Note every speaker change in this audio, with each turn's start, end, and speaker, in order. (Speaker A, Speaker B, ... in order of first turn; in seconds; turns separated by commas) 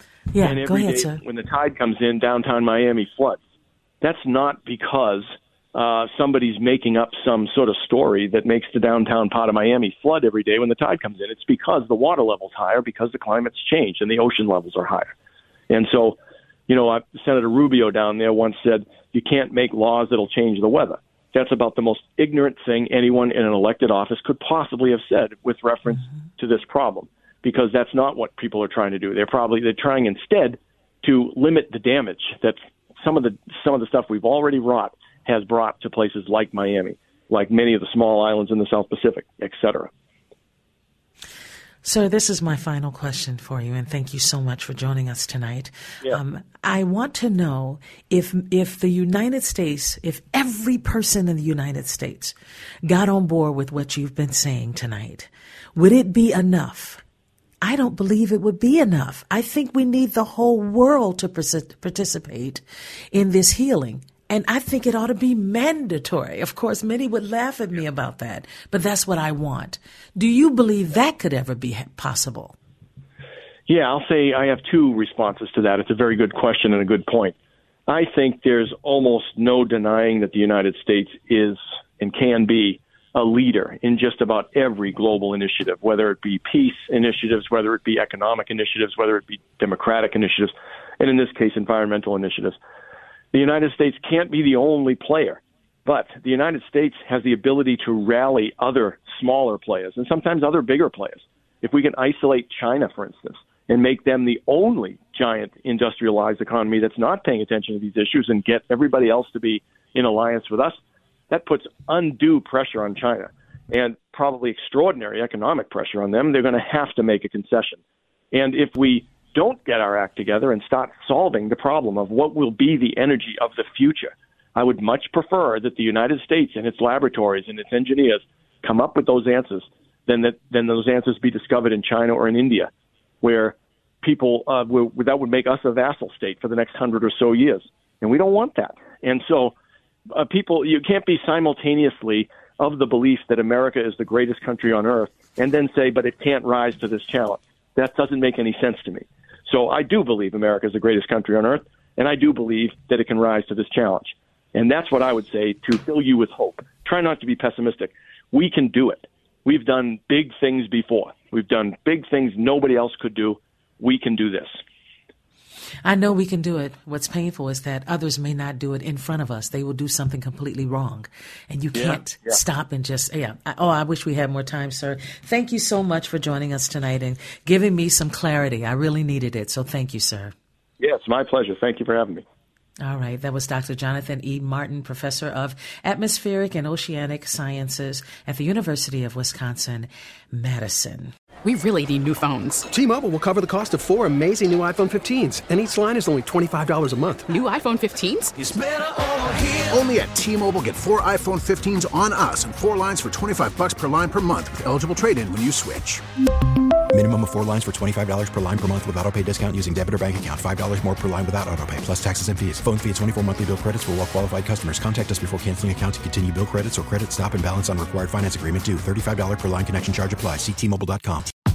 Speaker A: 0.3-1.2, Speaker B: 0.4-3.4, Speaker B: 4.0-15.1, Speaker B: 15.7-16.2, Speaker B: 16.7-39.9, Speaker A: 41.8-57.0, Speaker A: 57.6-72.5, Speaker B: 73.7-77.3, Speaker B: 77.9-92.6, Speaker B: 93.3-110.8, Speaker B: 111.3-117.8, Speaker B: 118.3-132.7, Speaker B: 133.2-139.5, Speaker B: 140.1-164.6, Speaker A: 165.8-180.3, Speaker B: 171.7-172.4, Speaker B: 180.8-182.2, Speaker A: 182.8-191.1, Speaker C: 191.4-192.7, Speaker D: 192.7-197.2, Speaker C: 197.3-198.3, Speaker E: 199.6-206.0, Speaker F: 206.9-221.3